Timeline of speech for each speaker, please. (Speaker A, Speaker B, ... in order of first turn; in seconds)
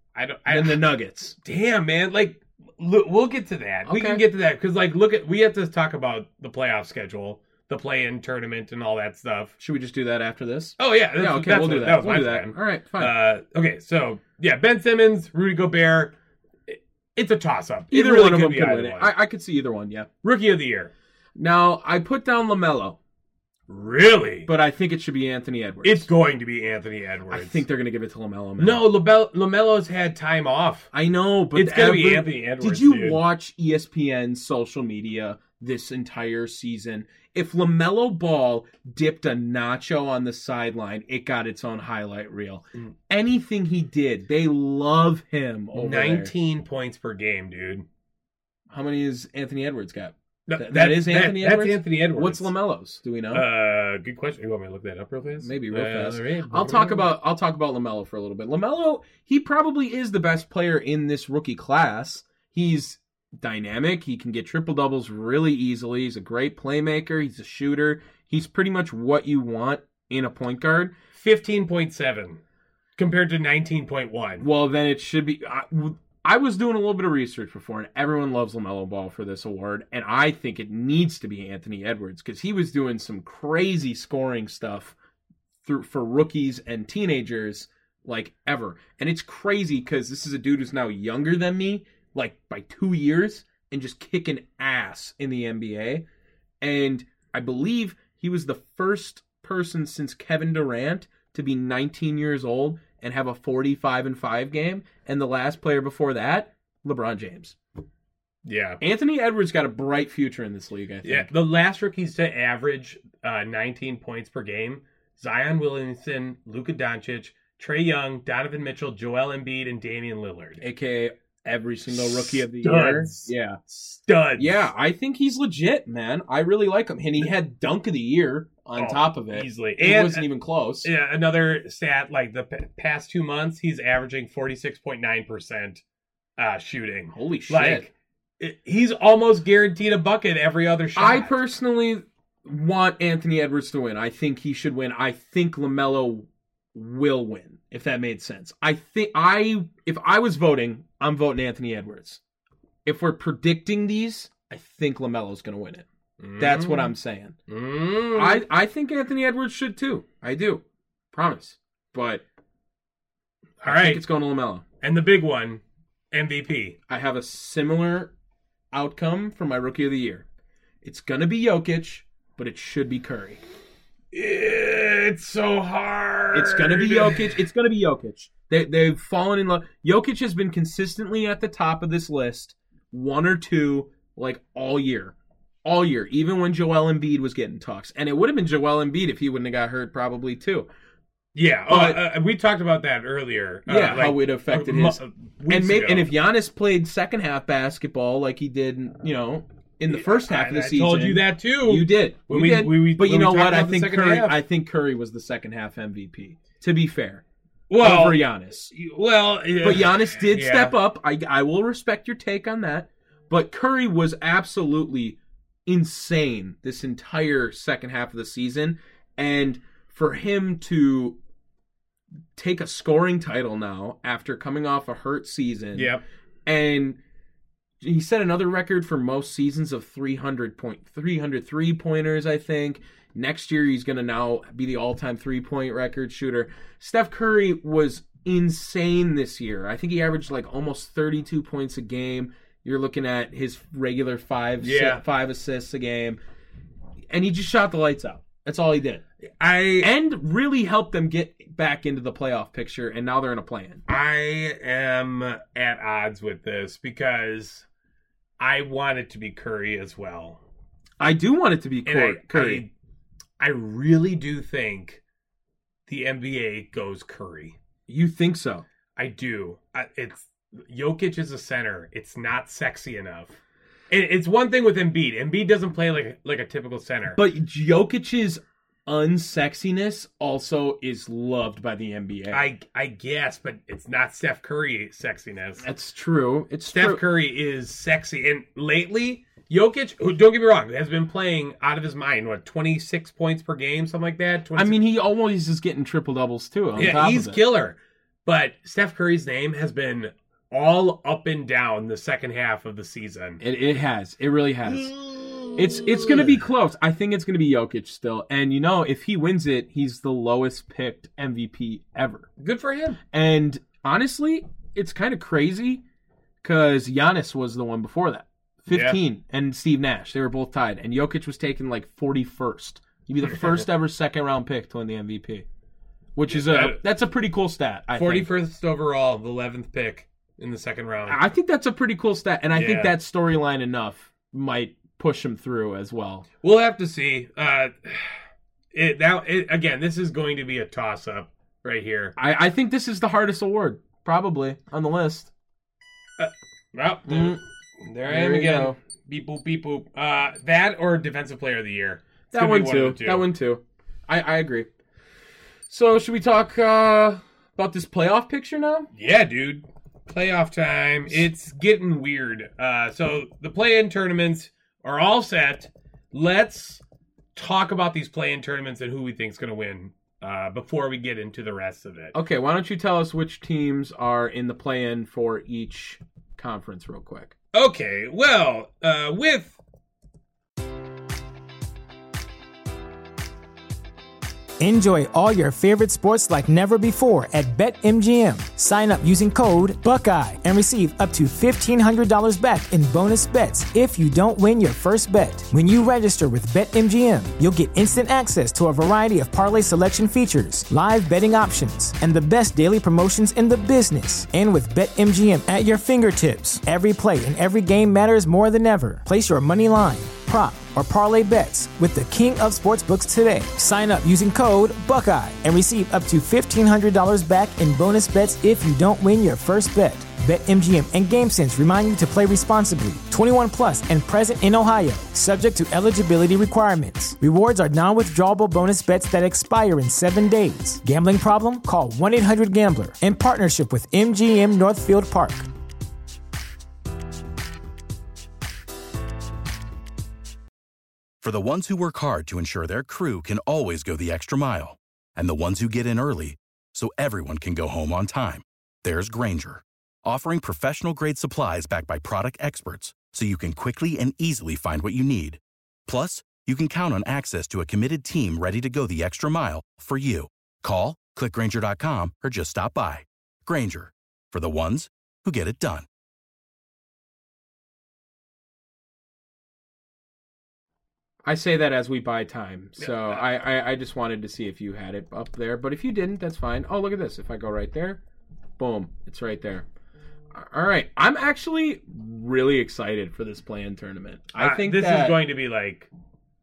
Speaker A: 0.1-0.8, 1.4-9.5, 10.8-16.1, 16.7-19.1, 20.2-20.9, 23.7-24.5, 25.8-27.6, 28.6-30.9, 31.6-33.2, 45.7-47.9, 50.5-52.5, 53.3-57.1, 71.2-72.4, 73.0-74.5, 108.5-108.8, 111.0-120.6, 121.9-124.7, 128.8-130.3, 130.8-135.8, 136.4-141.4, 156.2-156.9, 157.5-158.4, 163.6-164.0, 164.8-165.6, 166.1-166.8, 174.1-177.4, 191.3-196.1, 199.9-204.4, 207.7-210.8, 225.8-226.0, 244.6-245.0, 249.4-249.9, 253.9-257.7, 258.4-260.4, 261.9-262.7, 263.4-265.0, 265.9-267.6, 269.0-273.4, 273.9-277.2, 282.3-285.6, 286.7-294.8, 296.8-303.4, 304.7-306.4, 312.4-313.0, 318.7-319.0, 326.3-326.8, 327.9-331.2, 332.5-332.9, 336.4-338.2, 338.7-342.1, 346.2-353.3, 358.9-366.8, 367.4-372.1, 377.5-379.6, 472.8-473.2, 484.4-485.9
Speaker B: 0.5-1.4, 3.9-4.2, 9.6-13.2, 17.9-20.1, 21.4-23.0, 24.5-26.1, 27.3-28.9, 30.9-46.3, 48.7-53.5, 55.4-70.9, 74.4-85.0, 85.6-96.0, 96.6-107.6, 108.8-111.3, 120.6-123.6, 124.4-130.9, 137.1-137.9, 140.9-152.2, 152.8-155.9, 156.4-157.4, 158.1-162.2, 163.7-164.6, 166.9-168.1, 168.7-170.2, 170.8-173.4, 176.3-190.7, 191.7-192.0, 193.7-207.2, 207.8-208.7, 209.6-221.2, 222.4-225.9, 226.5-227.0, 227.8-246.2, 247.1-249.0, 249.8-253.8, 261.0-262.7, 267.9-268.6, 277.1-282.5, 285.6-287.0, 294.6-297.4, 303.4-304.9, 305.6-312.3, 313.1-315.8, 316.4-325.5, 326.2-328.3, 331.1-336.3, 342.2-345.3, 347.1-347.4, 348.1-348.8, 352.3-354.7, 355.7-358.9, 372.1-377.4, 471.2-478.0, 478.6-479.7, 480.3-485.2
Speaker C: 384.6-435.5
Speaker D: 441.2-465.9